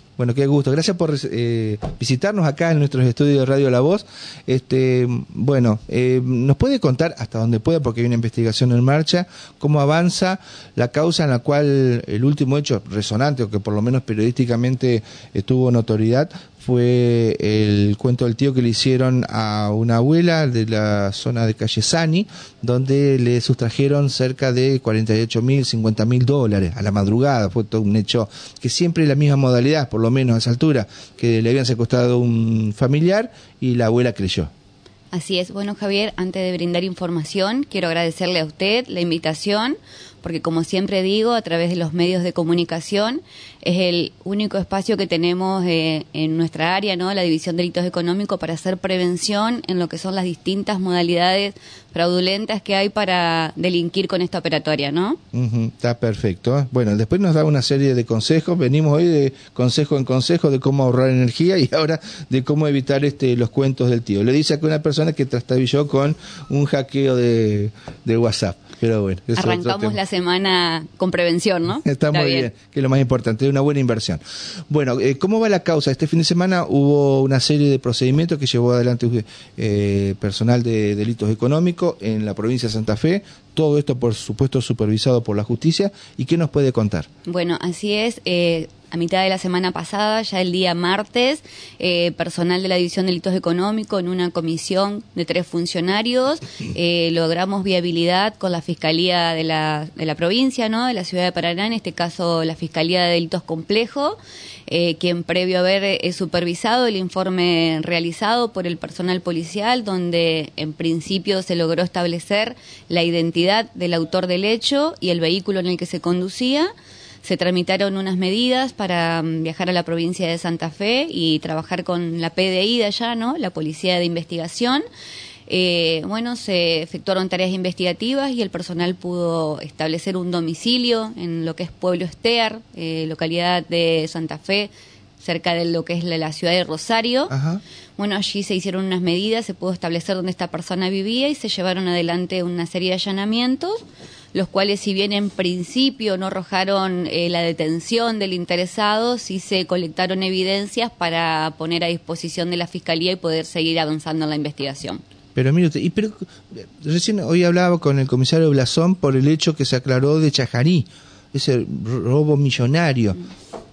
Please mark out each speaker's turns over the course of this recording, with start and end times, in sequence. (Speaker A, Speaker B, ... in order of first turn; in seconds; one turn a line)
Speaker A: 0.2-34.5
Speaker B: 35.1-55.2
Speaker A: 55.3-70.0
Speaker B: 69.3-72.5
Speaker A: 71.8-87.1
Speaker B: 87.3-116.7
Speaker B: 117.2-124.8
Speaker B: 125.5-134.7
Speaker B: 135.2-137.3
Speaker A: 137.3-137.6
Speaker B: 138.0-143.8
Speaker B: 144.3-155.0
Speaker A: 155.3-163.3